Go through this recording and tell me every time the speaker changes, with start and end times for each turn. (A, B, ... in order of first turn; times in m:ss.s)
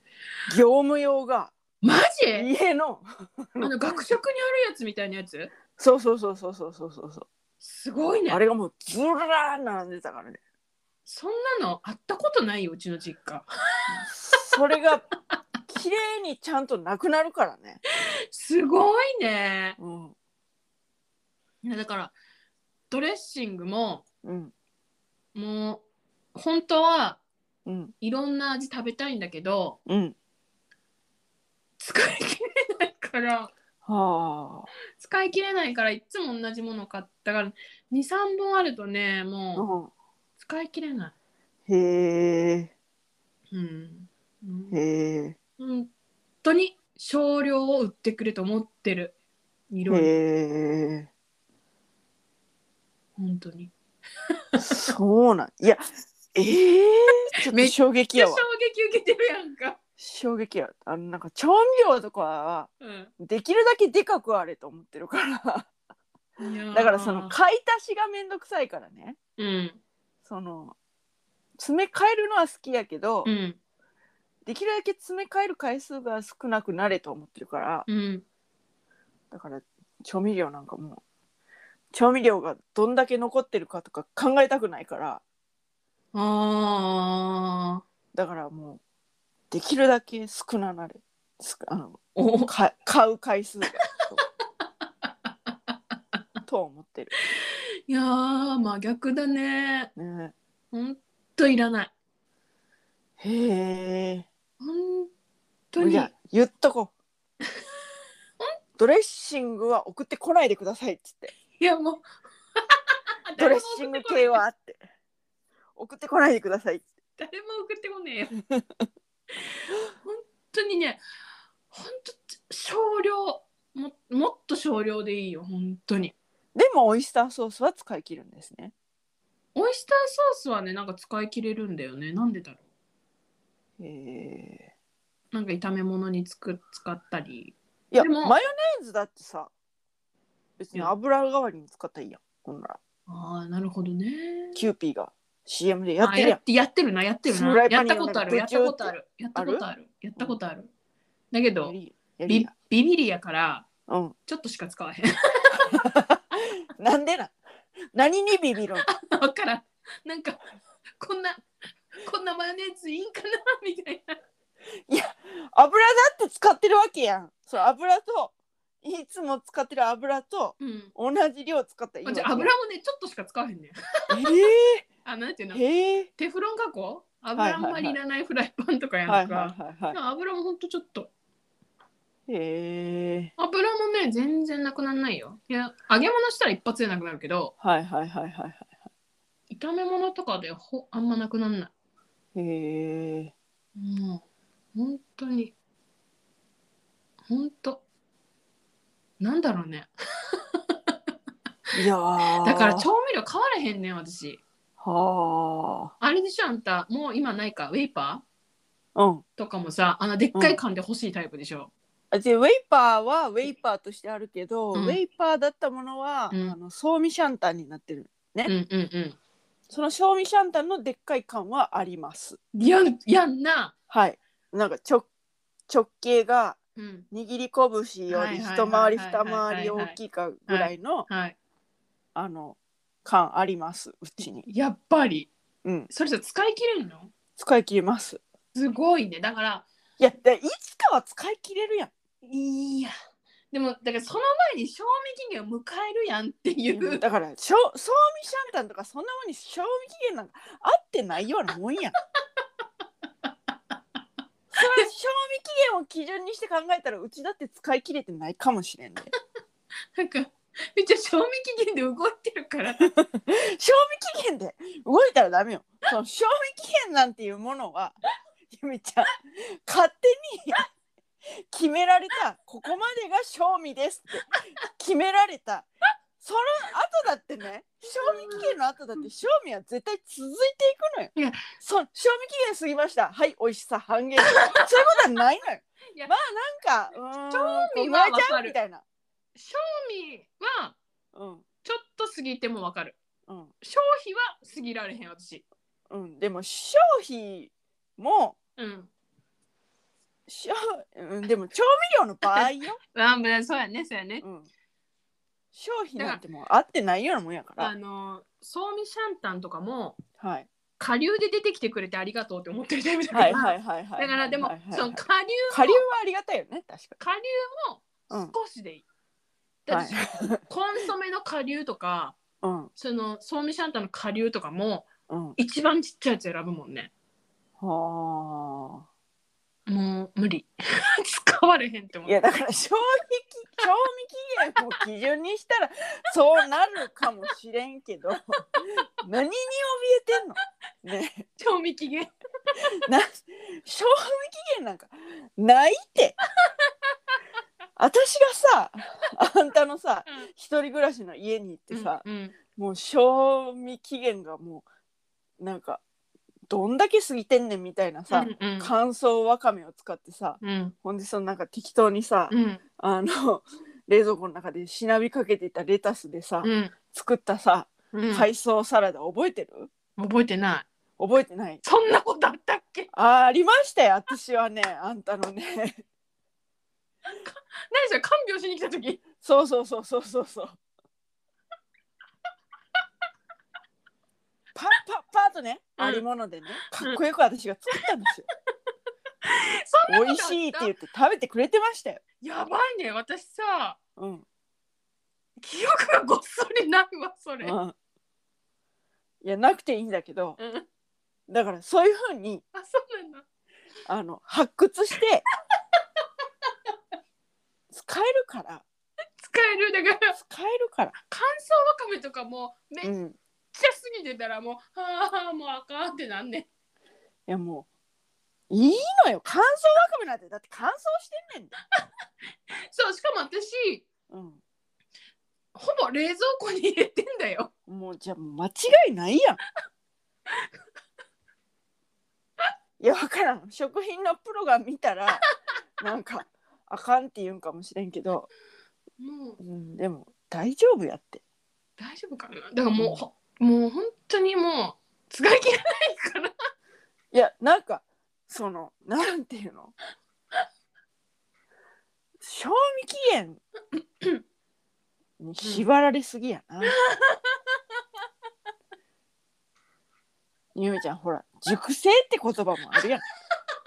0:00.5-0:01.5 A
0:01.8-0:02.5 B
0:02.3-0:04.0 A
0:03.6-0:05.5 B
0:05.8-0:07.3 A
0:07.6-0:08.4 B
0:08.3-0:10.4 A
0:11.0-0:14.8 B
0:13.9-0:15.0 A
0:15.7-0:17.8 A
0:18.3-0:19.8 B
0:19.8-0:20.1 A
0:21.6-0:22.1 B
0:22.9-0:24.0 B
0:24.2-0:24.5 A
0:25.3-0:25.8 B
0:26.3-0:27.2 B
0:27.6-0:27.9 A
0:28.0-0:29.8 B
0:29.8-0:30.1 A
0:31.8-0:33.5 B
0:33.8-0:34.7 A
0:35.0-0:39.7 B
0:39.5-0:39.9 A
0:40.4-0:41.1 B
0:41.7-0:42.7 A
0:43.5-0:44.8 B
0:44.7-0:45.4 A
0:45.6-0:45.9 B
0:46.4-0:49.1 B
0:49.7-0:50.1 B
0:49.9-0:51.1 A
0:53.2-0:53.7 B
0:54.6-0:58.4 A
0:57.5-0:59.8 B
1:00.0-1:05.7 A
1:02.8-1:03.1 B
1:06.4-1:07.4 B
1:06.7-1:09.2 A
1:09.4-1:09.8 B
1:10.2-1:10.7 A
1:11.6-1:13.3 A
1:13.2-1:13.6 B
1:14.4-1:17.9 A
1:17.9-1:18.2 B
1:19.3-1:21.0 A
1:21.9-1:25.2 A
1:26.1-1:27.8 B
1:28.1-1:28.8 A
1:29.5-1:34.2 A
1:32.1-1:32.5 B
1:35.0-1:35.8 B
1:36.5-1:37.1 A
1:37.4-1:39.9 B
1:40.0-1:40.3 A
1:40.7-1:41.9 B
1:43.2-1:44.3 A
1:44.6-1:45.1 B
1:45.7-1:46.1 B
1:45.8-1:46.9 A
1:48.8-1:51.3 A
1:51.6-1:52.0 B
1:52.6-1:54.4 B
1:53.4-1:54.8 A
1:55.8-1:56.8 A
1:57.2-1:58.3 B
2:00.0-2:01.0 B
2:01.7-2:06.1 B
2:06.5-2:08.7 A
2:09.5-2:12.6 B
2:13.8-2:14.7 A
2:15.3-2:18.3 B
2:17.9-2:19.5 A
2:20.6-2:22.8 A
2:23.1-2:24.6 B
2:24.5-2:26.4 A
2:26.0-2:30.7 B
2:27.2-2:29.6 A
2:31.3-2:31.7 B
2:31.6-2:32.5 A
2:32.3-2:33.7 B
2:33.9-2:34.1 A
2:34.3-2:35.8 B
2:35.7-2:36.2 A
2:36.7-2:37.3 A
2:37.9-2:38.8 A
2:38.9-2:40.4 B
2:41.0-2:44.2 B
2:44.9-2:52.5 A
2:50.6-2:50.9 B
2:52.0-2:54.4 B
2:54.1-2:54.8 A
2:55.0-2:55.6 B
2:55.5-2:56.1 A
2:56.2-3:01.1 B
2:57.4-2:58.0 A
2:59.1-3:00.0 A
3:02.3-3:03.3 A
3:03.4-3:07.5 B
3:07.6-3:08.7 A
3:09.5-3:11.7 B
3:12.3-3:13.3 A
3:13.8-3:14.2 B
3:14.7-3:15.5 B
3:17.3-3:17.8 B
3:19.2-3:20.9 B
3:21.7-3:22.9 A
3:22.4-3:24.4 B
3:24.8-3:25.9 A
3:26.0-3:28.2 B
3:28.9-3:29.2 A
3:29.4-3:31.7 B
3:32.1-3:38.5 A
3:34.7-3:35.0 B
3:38.4-3:39.2 B
3:39.7-3:42.4 A
3:42.5-3:43.7 B
3:43.9-3:45.1 A
3:45.7-3:46.6 A
3:46.8-3:47.0 B
3:47.1-3:51.1 A
3:48.1-3:50.0 B
3:50.5-3:51.4 B
3:52.1-3:54.4 A
3:54.2-3:55.3 B
3:55.6-3:55.9 A
3:55.9-3:57.1 B
3:57.4-3:58.2 A
3:58.5-3:59.6 B
4:00.0-4:01.9 A
4:02.2-4:02.9 B
4:03.5-4:07.0 B
4:06.7-4:12.0 A
4:14.5-4:19.1 A
4:14.6-4:14.9 B
4:19.9-4:22.9 B
4:22.8-4:27.9 A
4:28.5-4:30.6 A
4:31.4-4:35.7 A
4:36.2-4:48.8 A
4:38.0-4:39.1 B
4:41.2-4:41.4 B
4:44.2-4:44.7 B
4:47.3-4:48.5 B
4:49.4-4:50.8 B
4:51.1-4:51.4 A
4:51.6-4:53.0 B
4:53.3-4:53.5 A
4:53.6-4:55.4 B
4:55.9-4:58.4 A
4:58.6-4:58.9 B
5:00.3-5:02.8 A
5:02.2-5:04.2 B
5:04.2-5:04.5 A
5:05.5-5:07.7 A
5:07.6-5:10.0 B
5:10.2-5:10.5 A
5:10.8-5:15.8 B
5:13.1-5:15.0 A
5:15.5-5:17.0 A
5:17.0-5:18.8 B
5:19.6-5:22.2 B
5:19.7-5:20.4 A
5:22.4-5:22.7 A
5:22.8-5:26.9 B
5:25.1-5:25.4 A
5:27.6-5:28.8 A
5:29.7-5:32.2 B
5:32.0-5:41.2 A
5:41.4-5:42.6 B
5:42.8-5:46.2 A
5:47.8-5:52.0 A
5:51.7-5:52.4 B
5:52.5-5:54.6 A
5:55.4-5:55.8 A
5:56.5-6:09.7 A
5:58.1-5:58.7 B
6:00.4-6:00.7 B
6:02.3-6:02.6 B
6:06.4-6:06.7 B
6:07.9-6:08.3 B
6:10.0-6:10.7 B
6:11.0-6:11.6 A
6:11.6-6:12.9 B
6:12.9-6:15.8 A
6:17.1-6:19.0 B
6:19.2-6:20.6 A
6:24.6-6:28.2 A
6:25.8-6:26.0 B
6:29.2-6:30.7 B
6:29.9-6:32.0 A
6:32.2-6:33.8 B
6:34.0-6:34.2 A
6:35.4-6:37.6 B
6:37.4-6:37.7 A
6:39.2-6:40.4 A
6:40.4-6:40.6 B
6:41.3-6:42.4 A
6:42.5-6:43.2 B
6:43.9-6:45.2 A
6:47.7-6:48.6 A
6:49.2-6:50.2 B
6:50.1-6:50.9 A
6:51.1-6:53.0 B
6:52.8-6:53.2 A
6:53.5-6:56.5 B
6:57.3-6:57.7 A
6:58.5-7:01.5 A
7:02.5-7:03.8 B
7:04.1-7:04.4 A
7:05.5-7:07.5 B
7:07.7-7:09.4 A
7:12.8-7:15.2 A
7:15.8-7:18.3 A
7:19.0-7:19.4 B
7:19.4-7:21.2 A
7:21.8-7:26.3 B
7:22.8-7:23.0 A
7:27.1-7:29.7 A
7:32.2-7:33.4 A
7:35.2-7:36.7 A
7:36.6-7:37.6 B
7:40.5-7:43.0 A